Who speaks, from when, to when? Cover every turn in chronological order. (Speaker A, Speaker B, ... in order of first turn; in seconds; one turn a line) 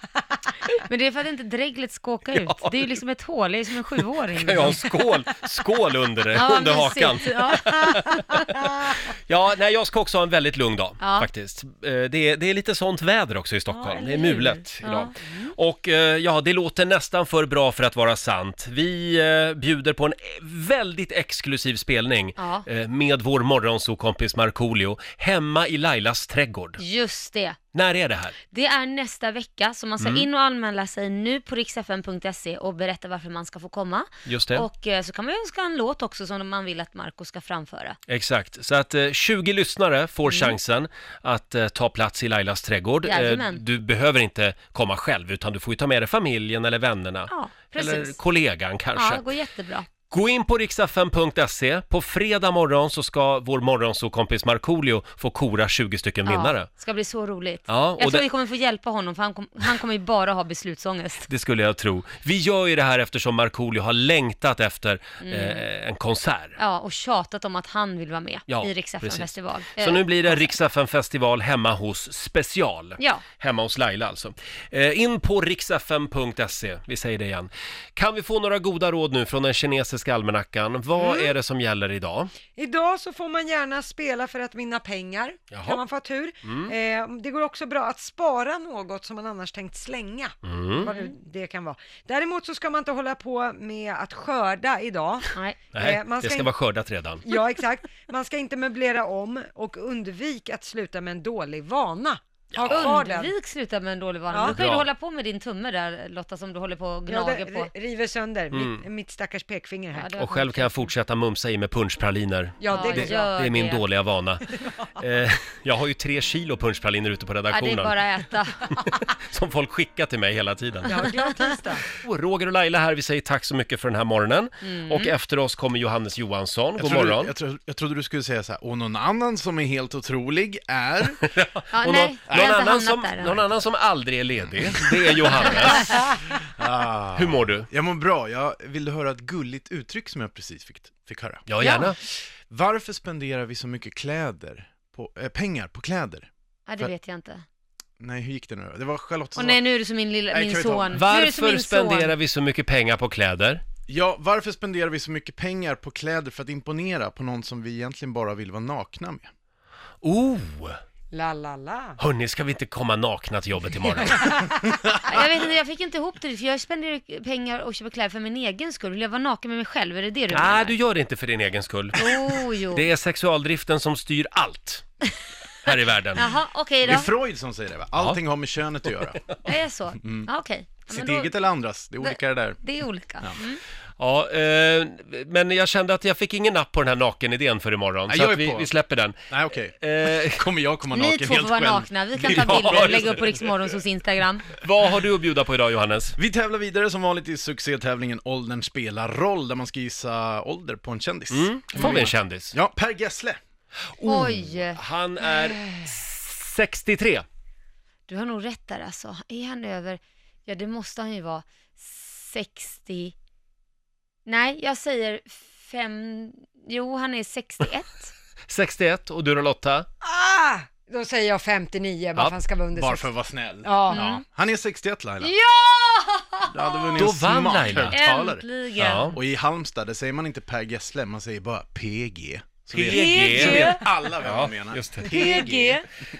Speaker A: 0.8-4.9
Speaker B: 2.4-2.7
Speaker B: 4.4-26.8
Speaker A: 6.3-8.5
Speaker A: 11.0-11.3
Speaker A: 13.7-15.5
Speaker A: 22.4-22.7
Speaker A: 26.8-27.6
Speaker B: 27.7-28.4
Speaker A: 28.5-38.0
Speaker B: 30.0-30.3
Speaker B: 34.3-34.7
Speaker B: 38.1-49.2
Speaker A: 40.3-40.6
Speaker A: 43.0-43.6
Speaker A: 47.3-48.2
Speaker A: 49.0-49.9
Speaker B: 50.1-56.7
Speaker A: 56.3-61.3
Speaker B: 57.7-58.2
Speaker B: 61.3-66.6
Speaker A: 65.2-65.6
Speaker A: 66.6-70.5
Speaker B: 68.5-82.3
Speaker A: 73.0-73.2
Speaker C: 82.5-96.5
Speaker B: 85.5-85.8
Speaker B: 86.4-86.7
Speaker B: 90.4-90.9
Speaker A: 90.8-91.2
Speaker A: 95.3-95.6
Speaker B: 95.7-97.3
Speaker C: 97.3-103.3
Speaker B: 102.5-103.0
Speaker A: 102.7-107.7
Speaker C: 104.3-104.6
Speaker B: 104.5-104.9
Speaker C: 107.1-110.1
Speaker B: 108.5-108.8
Speaker A: 110.0-110.8
Speaker B: 110.2-114.5
Speaker C: 112.6-113.3
Speaker A: 112.7-113.8
Speaker B: 115.0-118.0
Speaker A: 117.5-118.6
Speaker B: 118.7-121.0
Speaker C: 120.8-121.8
Speaker A: 120.9-121.4
Speaker B: 122.0-127.3
Speaker A: 124.6-125.1
Speaker D: 126.8-131.3
Speaker B: 131.3-136.1
Speaker A: 131.7-133.4
Speaker D: 136.6-141.5
Speaker B: 137.2-137.7
Speaker B: 141.5-142.0
Speaker A: 141.6-141.9
Speaker D: 142.4-146.3
Speaker A: 146.7-147.4
Speaker D: 148.0-149.6
Speaker A: 149.3-152.2
Speaker D: 150.3-151.0
Speaker B: 150.9-153.6
Speaker D: 153.9-159.3
Speaker B: 160.0-160.8
Speaker C: 161.1-162.0
Speaker B: 162.0-164.4
Speaker C: 163.9-164.6
Speaker A: 165.0-170.8
Speaker B: 170.3-174.8
Speaker A: 171.9-172.9
Speaker B: 175.7-176.3
Speaker A: 175.7-177.1
Speaker D: 176.8-179.3
Speaker A: 179.4-181.3
Speaker D: 180.0-180.3
Speaker D: 180.9-182.6
Speaker A: 182.0-183.6
Speaker B: 184.0-189.3
Speaker D: 188.1-188.7
Speaker D: 189.3-193.2
Speaker B: 189.8-190.5
Speaker A: 190.9-194.6
Speaker B: 192.2-193.4
Speaker B: 194.6-196.2
Speaker D: 196.2-203.4
Speaker B: 201.3-202.5
Speaker B: 203.9-207.2
Speaker A: 204.1-205.3
Speaker A: 208.1-213.1
Speaker A: 214.3-218.1
Speaker B: 218.5-219.9
Speaker C: 220.0-223.1
Speaker D: 222.8-225.3
Speaker C: 223.6-224.1
Speaker A: 223.9-224.2
Speaker A: 225.2-227.1
Speaker D: 226.5-228.4
Speaker B: 227.0-228.0
Speaker A: 227.7-229.2
Speaker B: 228.8-229.2
Speaker D: 229.1-235.8
Speaker B: 232.7-235.3
Speaker A: 232.8-233.9
Speaker A: 235.1-235.8
Speaker C: 235.2-235.4